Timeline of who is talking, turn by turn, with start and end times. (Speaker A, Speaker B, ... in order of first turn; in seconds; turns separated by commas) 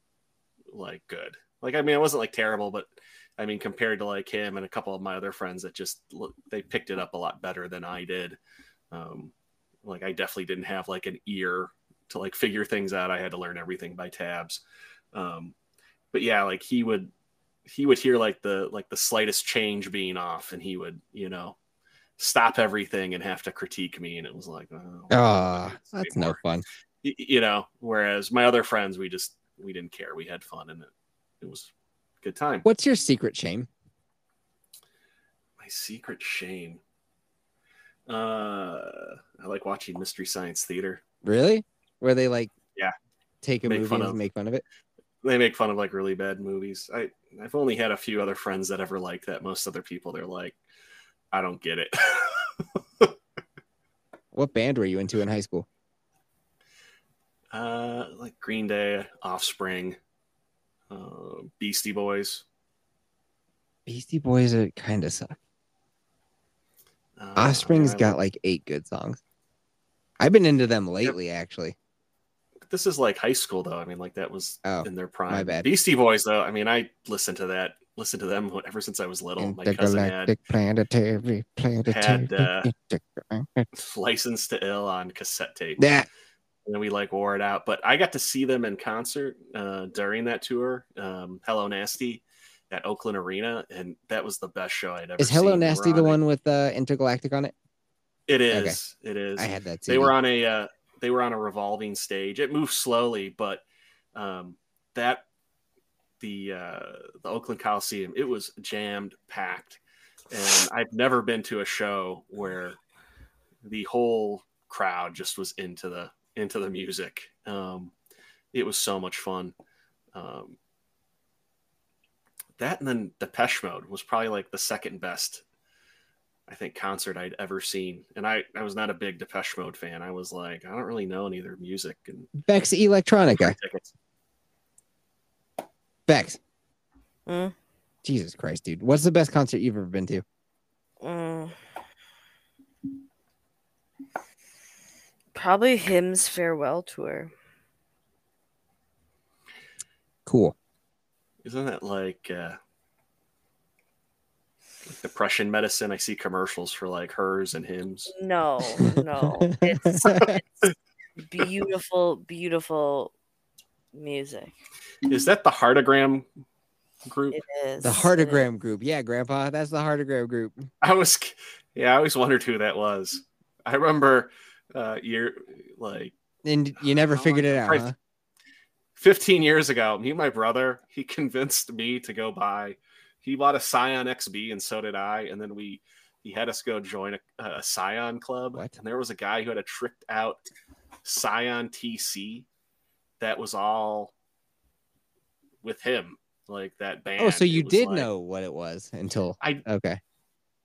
Speaker A: 0.7-8.4, Speaker A: 8.9-9.3, Speaker A: 9.8-14.6, Speaker A: 15.1-15.5, Speaker A: 16.1-17.1, Speaker A: 17.6-21.6, Speaker A: 22.2-26.4, Speaker B: 25.1-26.6, Speaker A: 27.0-30.9, Speaker A: 31.4-31.7, Speaker A: 32.2-32.6, Speaker B: 32.6-33.7, Speaker A: 35.6-36.8, Speaker A: 38.1-41.0, Speaker B: 41.2-42.5, Speaker B: 43.4-44.6, Speaker A: 43.6-44.2, Speaker A: 45.2-50.6, Speaker A: 51.3-52.5, Speaker B: 54.3-55.7, Speaker A: 57.5-60.0, Speaker A: 60.9-62.4, Speaker B: 63.9-65.4, Speaker A: 67.2-68.2, Speaker B: 67.3-69.2, Speaker B: 70.2-71.8, Speaker A: 72.7-80.3, Speaker B: 74.6-75.7, Speaker B: 79.4-83.7, Speaker A: 81.9-82.7, Speaker A: 83.7-85.8, Speaker B: 85.8-86.1, Speaker A: 86.7-96.2, Speaker B: 95.2-97.5, Speaker A: 98.3-103.6, Speaker B: 98.5-98.8, Speaker B: 99.4-100.1, Speaker A: 104.1-105.2, Speaker A: 106.2-109.8, Speaker A: 110.3-112.8, Speaker A: 113.6-117.9, Speaker A: 118.5-119.5, Speaker A: 120.1-120.6, Speaker A: 122.6-125.4, Speaker A: 126.5-132.3, Speaker B: 132.4-133.6, Speaker A: 133.3-133.9, Speaker B: 136.1-136.4, Speaker C: 137.3-137.5, Speaker B: 138.0-140.2, Speaker C: 141.0-141.6, Speaker C: 145.3-147.3, Speaker B: 150.2-150.5, Speaker A: 151.4-152.6, Speaker A: 154.9-158.1, Speaker C: 158.1-160.4, Speaker B: 159.4-160.4, Speaker C: 161.2-163.1, Speaker C: 163.9-164.5, Speaker A: 165.1-166.2, Speaker A: 167.1-167.4, Speaker C: 167.3-168.5, Speaker B: 167.8-170.7, Speaker A: 170.8-176.1, Speaker B: 176.4-177.9, Speaker A: 177.1-177.9, Speaker A: 179.0-190.4, Speaker A: 191.0-192.5, Speaker A: 193.2-194.1, Speaker A: 195.6-198.1, Speaker B: 197.2-200.0